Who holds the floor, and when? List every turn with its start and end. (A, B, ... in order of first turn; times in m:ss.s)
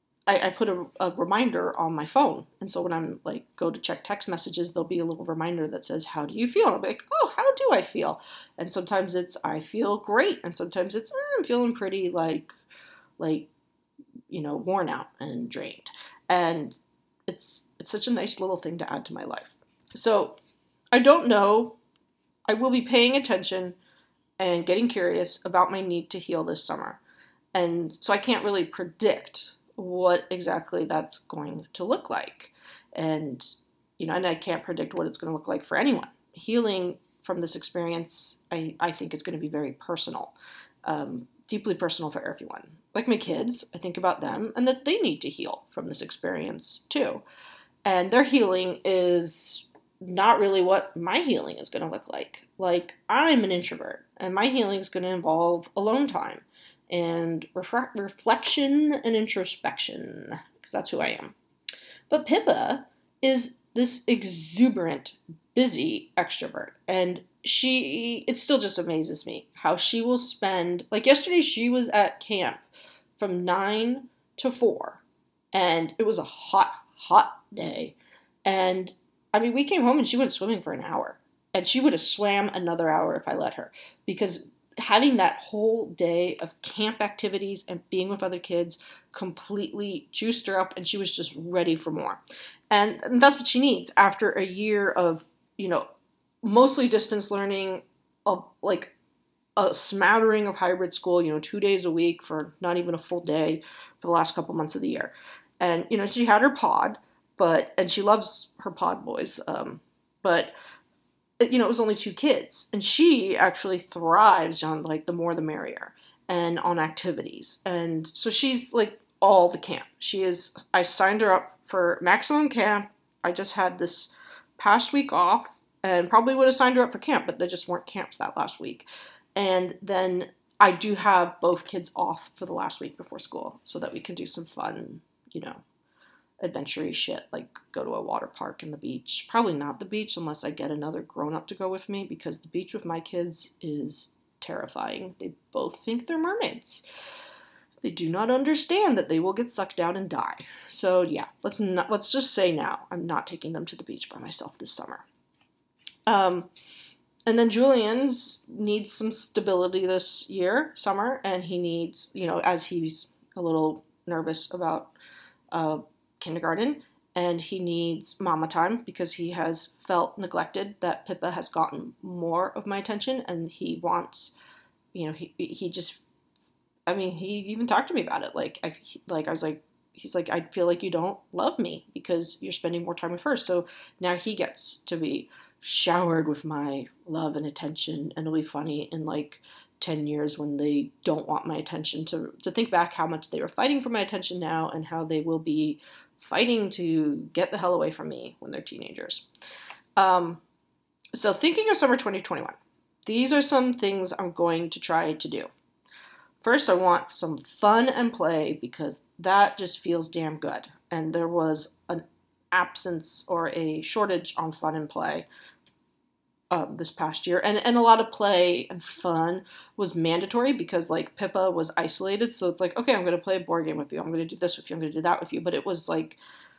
0:00.3-0:12.5 A
0:13.2-0:13.5 A
0:14.3-0:20.4 A
0:20.9-0:21.8 A
0:22.5-0:23.8 A
0:24.4-0:27.0 A
0:27.5-0:47.2 A
0:47.8-1:01.3 A
1:02.1-1:12.6 A
1:13.2-1:15.0 A
1:15.5-1:35.8 A
1:36.4-1:38.9 A
1:39.6-1:50.5 A
1:51.4-2:15.6 A
2:16.4-2:26.8 A
2:27.8-2:35.0 A
2:36.1-2:36.5 A
2:37.2-2:44.9 A
2:45.5-2:54.3 A
2:54.9-2:56.0 A
2:56.9-3:19.3 A
3:20.0-3:20.4 A
3:21.1-3:25.5 A
3:26.4-3:35.3 A
3:36.5-3:46.2 A